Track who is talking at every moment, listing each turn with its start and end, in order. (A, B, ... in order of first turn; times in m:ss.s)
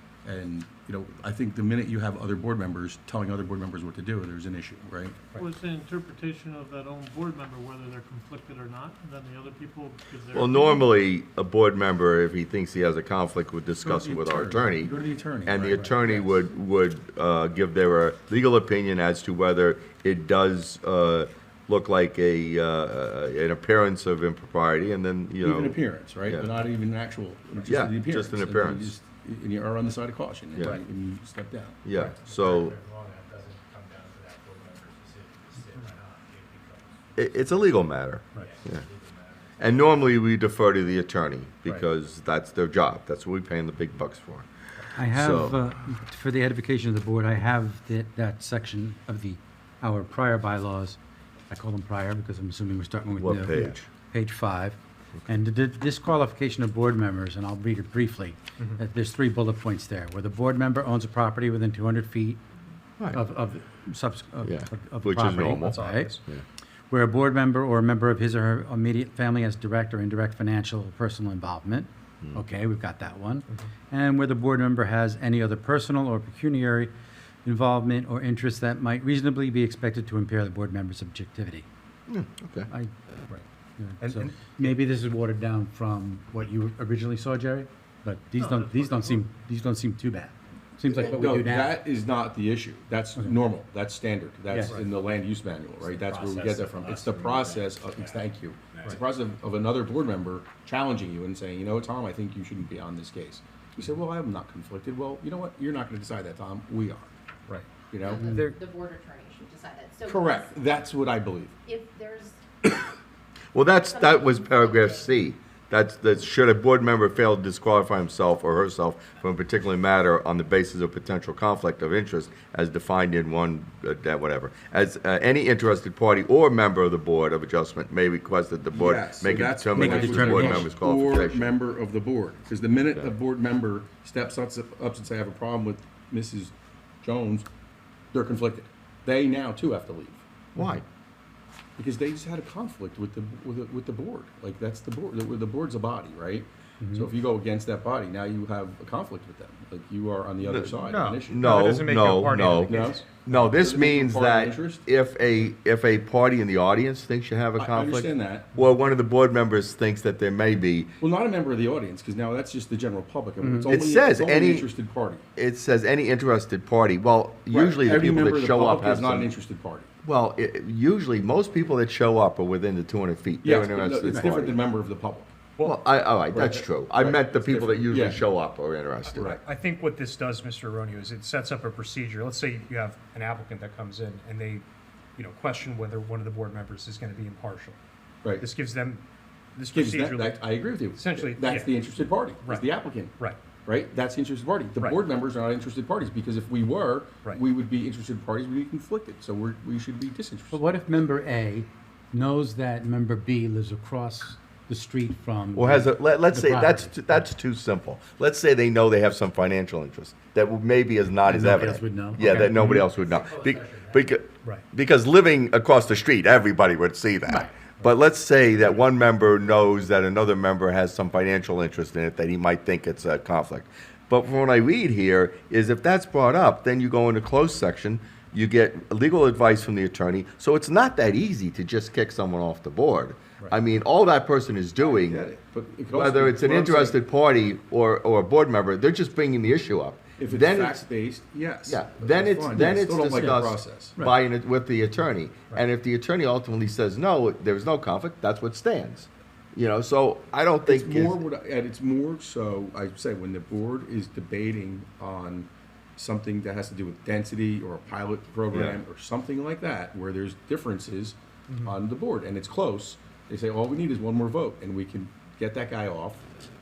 0:00.2-0:05.2 A
0:05.3-0:10.9 B
0:10.3-0:26.5 C
0:13.8-0:16.4 A
0:25.4-0:31.8 A
0:27.6-0:28.9 C
0:31.8-0:32.8 C
0:32.0-0:37.7 D
0:37.2-0:38.8 C
0:38.3-0:40.0 D
0:39.6-0:44.5 C
0:45.0-0:51.0 E
0:45.1-0:45.6 C
0:51.5-1:02.4 E
0:53.2-0:53.8 C
1:03.1-1:06.2 E
1:04.4-1:06.4 C
1:05.5-1:06.2 F
1:06.9-1:16.9 E
1:17.4-1:21.6 E
1:22.1-1:22.7 C
1:23.8-1:31.8 E
1:24.0-1:24.7 F
1:28.4-1:29.2 B
1:30.9-1:47.1 A
1:34.5-1:34.8 E
1:35.8-1:38.2 D
1:38.7-1:39.0 D
1:47.9-1:48.4 A
1:48.0-1:50.8 G
1:48.1-1:48.5 E
1:50.0-1:51.6 A
1:51.6-1:52.4 G
1:53.5-2:11.5 C
1:53.9-1:55.1 G
2:08.7-2:17.4 A
2:09.7-2:10.7 E
2:18.1-2:20.2 A
2:20.5-2:20.8 C
2:21.8-2:31.6 A
2:26.8-2:27.1 E
2:30.8-2:33.0 F
2:31.3-2:40.9 C
2:32.6-2:34.8 A
2:37.6-2:38.5 A
2:41.0-2:45.2 A
2:43.4-2:43.7 E
2:43.7-2:44.7 C
2:45.4-2:49.3 C
2:47.5-2:49.9 A
2:50.0-2:54.6 C
2:53.4-2:55.3 A
2:55.6-2:59.2 C
2:56.3-2:58.2 A
2:59.0-3:04.6 F
3:05.2-3:07.8 F
3:08.4-3:09.0 F
3:09.5-3:13.4 F
3:09.7-3:20.7 A
3:20.5-3:27.3 E
3:25.5-3:55.2 C
3:31.2-3:32.8 E
3:33.0-3:34.1 D
3:54.8-3:57.0 A
3:55.9-4:00.8 C
4:00.2-4:04.0 A
4:01.7-4:11.2 C
4:10.6-4:26.2 A
4:18.5-4:18.8 C